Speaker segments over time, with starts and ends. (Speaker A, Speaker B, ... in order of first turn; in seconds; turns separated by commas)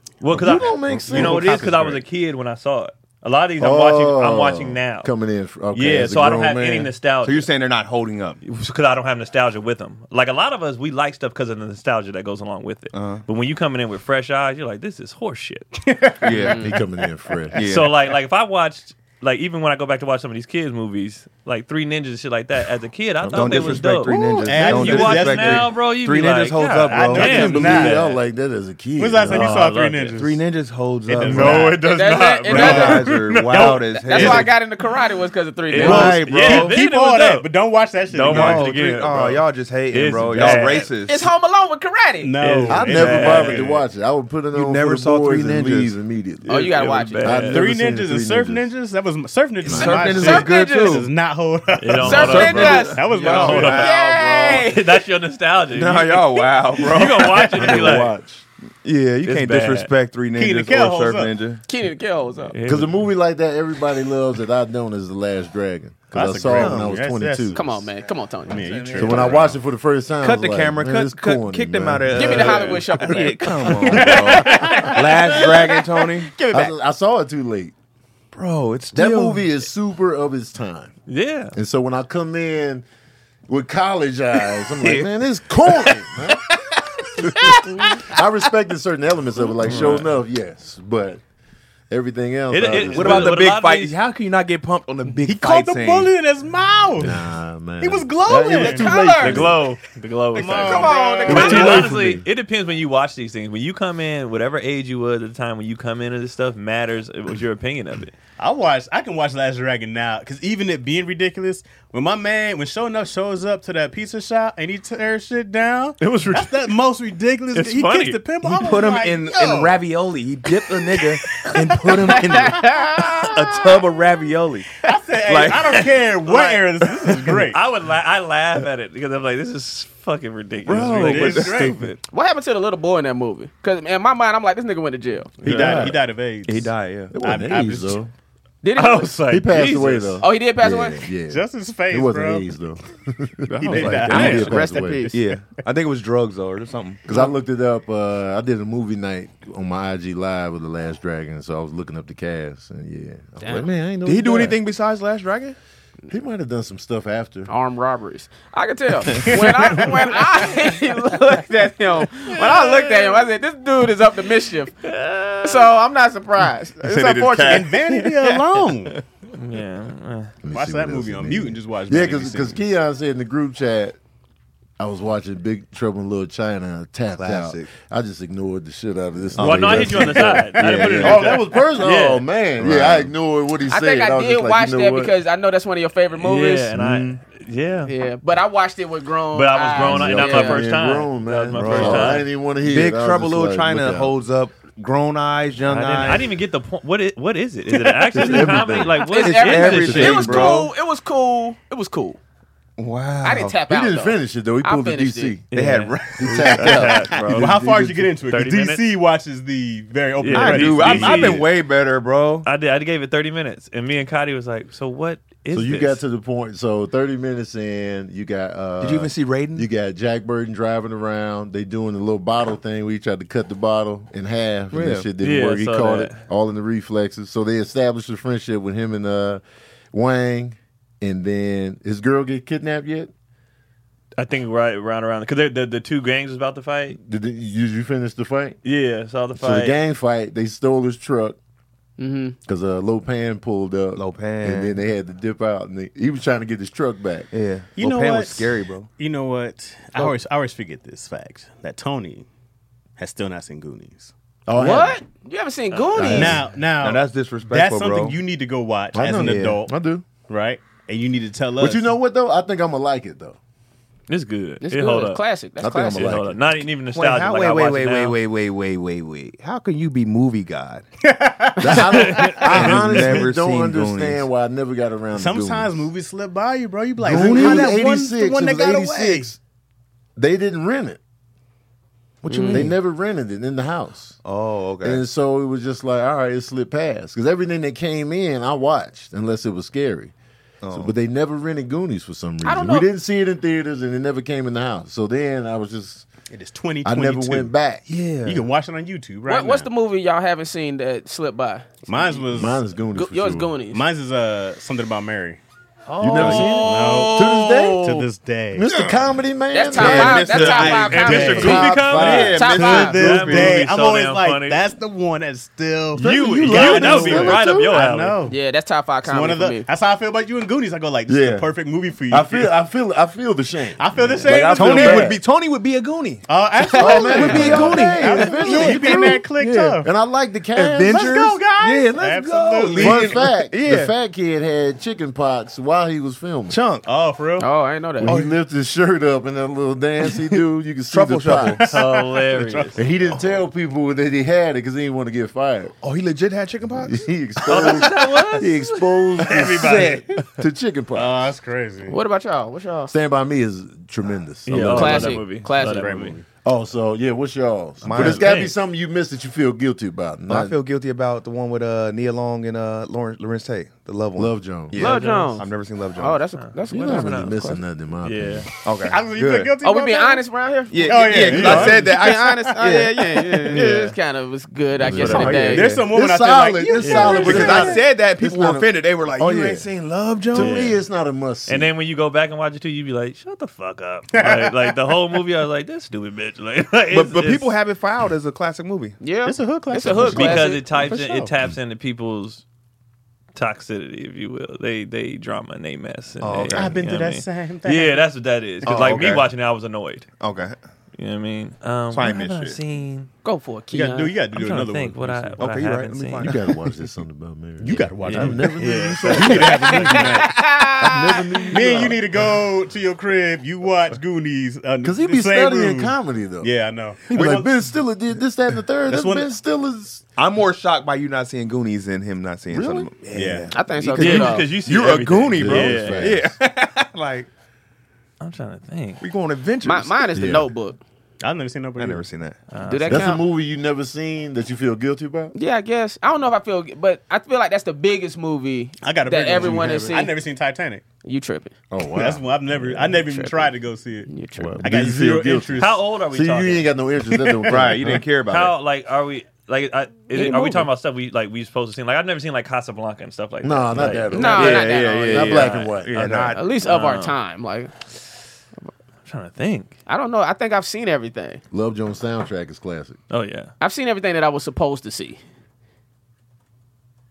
Speaker A: 0.2-5.1, Speaker B: 0.3-1.7, Speaker C: 0.3-2.0, Speaker B: 3.6-6.9, Speaker C: 5.7-6.1, Speaker A: 5.8-7.5, Speaker C: 7.2-8.4, Speaker A: 8.4-15.9, Speaker C: 12.9-13.2, Speaker D: 15.8-16.5, Speaker C: 16.2-16.7, Speaker E: 16.4-16.7, Speaker B: 16.6-17.6, Speaker C: 17.5-18.0, Speaker A: 17.6-28.2, Speaker B: 23.2-23.9, Speaker C: 23.3-27.8, Speaker D: 24.1-25.8, Speaker D: 26.9-28.0, Speaker B: 27.2-29.6, Speaker D: 29.0-30.4, Speaker A: 29.3-30.2, Speaker C: 30.1-31.7, Speaker D: 31.1-31.8, Speaker A: 31.2-34.5, Speaker E: 31.8-33.0, Speaker C: 32.5-34.5, Speaker D: 32.5-33.0, Speaker E: 33.6-36.2, Speaker A: 35.7-37.5, Speaker C: 35.7-36.8, Speaker D: 35.8-38.7, Speaker A: 38.1-40.9, Speaker C: 38.2-41.3, Speaker E: 41.1-42.4, Speaker D: 42.2-43.7, Speaker A: 42.4-43.7, Speaker B: 42.7-48.7, Speaker C: 44.5-45.9, Speaker E: 46.5-47.5, Speaker A: 46.5-47.7, Speaker D: 47.5-53.9, Speaker B: 49.6-50.1, Speaker C: 49.6-51.1, Speaker E: 49.8-51.0, Speaker A: 51.8-58.1, Speaker E: 52.0-55.0, Speaker C: 52.1-54.6, Speaker C: 55.7-58.0, Speaker B: 57.5-58.4, Speaker C: 58.8-61.6, Speaker A: 59.2-59.9, Speaker D: 60.3-61.3, Speaker E: 61.7-62.5, Speaker A: 62.5-63.1, Speaker B: 62.6-67.6, Speaker D: 66.1-67.8, Speaker C: 66.5-67.0, Speaker E: 67.5-69.0, Speaker D: 68.5-69.5, Speaker B: 68.9-74.2, Speaker A: 69.0-69.3, Speaker C: 69.0-69.5, Speaker C: 70.2-76.3, Speaker E: 72.1-76.7, Speaker A: 73.9-75.2, Speaker D: 74.4-74.9, Speaker B: 76.5-77.7, Speaker C: 78.3-79.4, Speaker B: 78.9-80.9, Speaker A: 81.1-81.5, Speaker B: 81.5-82.8, Speaker B: 83.5-86.5, Speaker C: 84.8-85.1, Speaker B: 87.2-91.2, Speaker A: 89.6-90.2, Speaker B: 91.9-93.4, Speaker A: 92.5-94.0, Speaker C: 92.9-96.1, Speaker D: 95.2-97.2, Speaker B: 97.0-99.6, Speaker D: 97.8-98.9, Speaker E: 98.6-99.5, Speaker A: 99.1-108.1, Speaker D: 100.3-101.8, Speaker E: 100.4-101.9, Speaker B: 101.2-102.2, Speaker D: 108.4-119.8, Speaker A: 116.0-116.7, Speaker A: 117.5-118.2, Speaker C: 118.4-125.9, Speaker D: 121.4-122.4, Speaker E: 122.5-123.0, Speaker D: 124.8-127.6, Speaker A: 126.2-126.8, Speaker C: 126.9-127.4, Speaker A: 127.4-132.0, Speaker C: 130.7-131.7, Speaker D: 130.7-131.9, Speaker E: 132.1-135.3, Speaker D: 135.4-138.0, Speaker B: 135.4-135.9, Speaker C: 135.4-137.1, Speaker A: 135.6-135.9, Speaker B: 137.1-138.1, Speaker E: 138.6-139.1, Speaker A: 138.7-140.2, Speaker B: 139.3-145.1, Speaker E: 140.2-141.0, Speaker D: 141.3-142.4, Speaker A: 143.5-144.5, Speaker D: 143.6-144.5, Speaker E: 144.1-145.2, Speaker C: 145.1-147.1, Speaker B: 147.1-154.6, Speaker C: 154.0-155.6, Speaker B: 156.1-157.5, Speaker E: 157.5-164.7, Speaker A: 162.4-163.2, Speaker A: 164.8-165.7, Speaker E: 165.4-167.7, Speaker C: 166.8-169.0, Speaker D: 167.4-169.0, Speaker A: 169.3-170.3, Speaker B: 170.4-174.0, Speaker D: 170.5-172.6, Speaker B: 174.8-185.1, Speaker C: 177.1-177.7, Speaker C: 179.4-181.4, Speaker A: 179.4-182.2, Speaker C: 182.6-183.1, Speaker E: 183.7-186.7, Speaker A: 186.2-187.9, Speaker C: 186.7-187.2, Speaker E: 187.9-190.6, Speaker A: 189.3-192.3, Speaker B: 189.8-194.2, Speaker C: 191.5-196.3, Speaker A: 195.7-200.5, Speaker B: 198.1-199.0, Speaker C: 198.2-200.7, Speaker E: 199.0-202.2, Speaker B: 199.8-200.6, Speaker C: 202.8-203.5, Speaker E: 203.2-205.4, Speaker B: 203.6-205.4, Speaker A: 205.5-207.6, Speaker C: 205.5-206.8, Speaker B: 206.2-208.1, Speaker D: 206.6-211.4, Speaker A: 208.3-208.8, Speaker A: 210.2-211.5, Speaker C: 210.3-212.5, Speaker A: 212.4-216.0, Speaker B: 215.5-233.1, Speaker C: 218.8-219.7, Speaker C: 224.7-225.1, Speaker A: 225.2-226.2, Speaker A: 234.2-237.0, Speaker B: 236.9-238.6, Speaker A: 238.6-239.8, Speaker B: 239.3-241.4, Speaker E: 242.0-242.3, Speaker B: 242.4-247.3, Speaker C: 243.9-244.8, Speaker C: 247.3-248.9, Speaker D: 247.8-252.2, Speaker D: 253.0-254.1, Speaker B: 254.5-255.0, Speaker E: 254.5-256.4, Speaker A: 255.7-256.3, Speaker B: 255.9-256.5, Speaker D: 256.1-261.9, Speaker C: 256.8-258.2, Speaker B: 258.9-260.1, Speaker C: 259.1-259.6, Speaker B: 261.6-263.4, Speaker A: 264.1-265.2, Speaker E: 264.6-266.2, Speaker B: 265.6-266.4, Speaker A: 265.9-268.2, Speaker C: 266.9-270.9, Speaker D: 271.0-272.5, Speaker B: 271.6-275.9, Speaker A: 271.9-273.2, Speaker C: 272.5-274.2, Speaker D: 275.1-279.3, Speaker C: 277.0-277.8, Speaker B: 277.0-279.4, Speaker B: 280.1-281.0, Speaker E: 282.2-282.7, Speaker C: 282.3-282.7, Speaker B: 282.4-284.2, Speaker C: 284.2-285.0, Speaker B: 284.8-290.1, Speaker C: 290.6-290.9, Speaker B: 290.7-296.1, Speaker E: 292.4-292.9, Speaker D: 296.3-297.5, Speaker B: 296.8-297.8, Speaker C: 297.9-298.5, Speaker D: 298.2-299.7, Speaker E: 299.2-301.7, Speaker D: 301.9-302.6, Speaker B: 302.3-303.5, Speaker E: 302.9-303.8, Speaker D: 303.7-305.4, Speaker A: 305.9-306.7, Speaker C: 306.0-307.8, Speaker B: 306.0-310.6, Speaker D: 306.6-308.6, Speaker C: 308.6-309.0, Speaker E: 309.5-311.8, Speaker C: 309.7-313.7, Speaker D: 310.3-311.7, Speaker A: 310.6-314.7, Speaker B: 311.4-312.5, Speaker E: 312.3-313.0, Speaker D: 312.5-318.4, Speaker B: 315.9-317.8, Speaker A: 316.0-318.2, Speaker E: 318.3-319.6, Speaker D: 319.0-322.5, Speaker B: 321.1-321.5, Speaker B: 322.1-325.2, Speaker D: 323.8-325.1, Speaker A: 323.9-324.4, Speaker C: 324.5-329.7, Speaker D: 326.3-329.9, Speaker E: 326.6-327.9, Speaker B: 326.8-331.2, Speaker C: 330.5-333.9, Speaker D: 330.9-333.3, Speaker B: 332.7-336.6, Speaker C: 336.5-336.9, Speaker D: 336.8-337.5, Speaker E: 337.4-338.1, Speaker B: 338.0-341.8, Speaker C: 338.0-338.4, Speaker C: 340.9-341.8, Speaker D: 341.3-342.8, Speaker A: 341.7-342.8, Speaker B: 342.8-345.7, Speaker C: 345.8-347.8, Speaker B: 346.7-351.3, Speaker A: 347.5-350.0, Speaker C: 349.3-350.2, Speaker D: 350.9-352.0, Speaker E: 351.9-352.9, Speaker B: 352.9-355.2, Speaker A: 354.5-356.1, Speaker E: 354.6-355.9, Speaker D: 355.4-356.2, Speaker B: 356.4-360.5, Speaker A: 357.8-358.5, Speaker C: 357.8-358.5, Speaker C: 360.3-366.2, Speaker B: 364.1-364.8, Speaker E: 364.8-367.6, Speaker A: 364.8-365.4, Speaker A: 366.4-368.5, Speaker B: 366.7-368.5, Speaker C: 368.6-369.5, Speaker D: 368.8-370.2, Speaker E: 369.6-375.7, Speaker C: 370.7-373.8, Speaker D: 370.8-372.4, Speaker B: 371.3-371.8, Speaker B: 374.8-379.7, Speaker A: 374.9-375.4, Speaker D: 375.0-377.8, Speaker C: 375.1-375.9, Speaker A: 376.8-377.6, Speaker C: 376.9-380.7, Speaker B: 380.3-381.7, Speaker A: 380.3-380.8, Speaker A: 381.5-387.6, Speaker D: 384.1-384.8, Speaker C: 386.9-389.0, Speaker E: 389.0-391.0, Speaker D: 389.2-391.3, Speaker A: 390.1-392.4, Speaker A: 393.3-400.1, Speaker C: 396.2-396.8, Speaker D: 396.5-398.0, Speaker C: 398.6-399.3, Speaker C: 400.2-400.6, Speaker A: 401.0-403.1, Speaker C: 401.9-402.6, Speaker E: 403.2-404.1, Speaker D: 403.7-405.4, Speaker A: 404.3-406.4, Speaker C: 405.4-406.5, Speaker B: 406.2-412.0, Speaker D: 407.6-410.7, Speaker A: 408.0-409.2, Speaker E: 409.5-411.4, Speaker D: 411.5-417.5, Speaker B: 414.8-416.5, Speaker B: 417.1-420.0, Speaker C: 417.1-417.5, Speaker D: 418.9-419.3, Speaker C: 420.2-427.3, Speaker B: 422.5-422.9, Speaker D: 423.1-423.5, Speaker E: 423.5-424.5, Speaker A: 424.0-426.1, Speaker B: 425.4-426.3, Speaker A: 428.2-429.0, Speaker C: 429.0-430.1, Speaker E: 429.6-430.8, Speaker B: 430.1-430.5, Speaker D: 431.2-432.1, Speaker C: 431.8-432.4, Speaker A: 432.5-433.1, Speaker E: 432.6-433.2, Speaker B: 432.9-435.3, Speaker E: 435.3-440.1, Speaker D: 438.8-440.8, Speaker E: 441.0-441.5, Speaker B: 441.7-442.2, Speaker D: 441.9-445.8, Speaker E: 443.0-443.5, Speaker E: 444.1-444.6, Speaker B: 444.4-448.0, Speaker A: 445.6-446.7, Speaker C: 447.4-448.5, Speaker A: 448.2-455.8, Speaker E: 450.1-450.7, Speaker B: 453.4-456.4, Speaker E: 454.1-455.4, Speaker C: 454.1-456.4, Speaker E: 456.3-457.7, Speaker A: 456.6-457.1, Speaker A: 459.0-459.8, Speaker E: 459.9-461.4, Speaker B: 461.5-463.0, Speaker A: 463.1-463.5, Speaker E: 463.6-465.2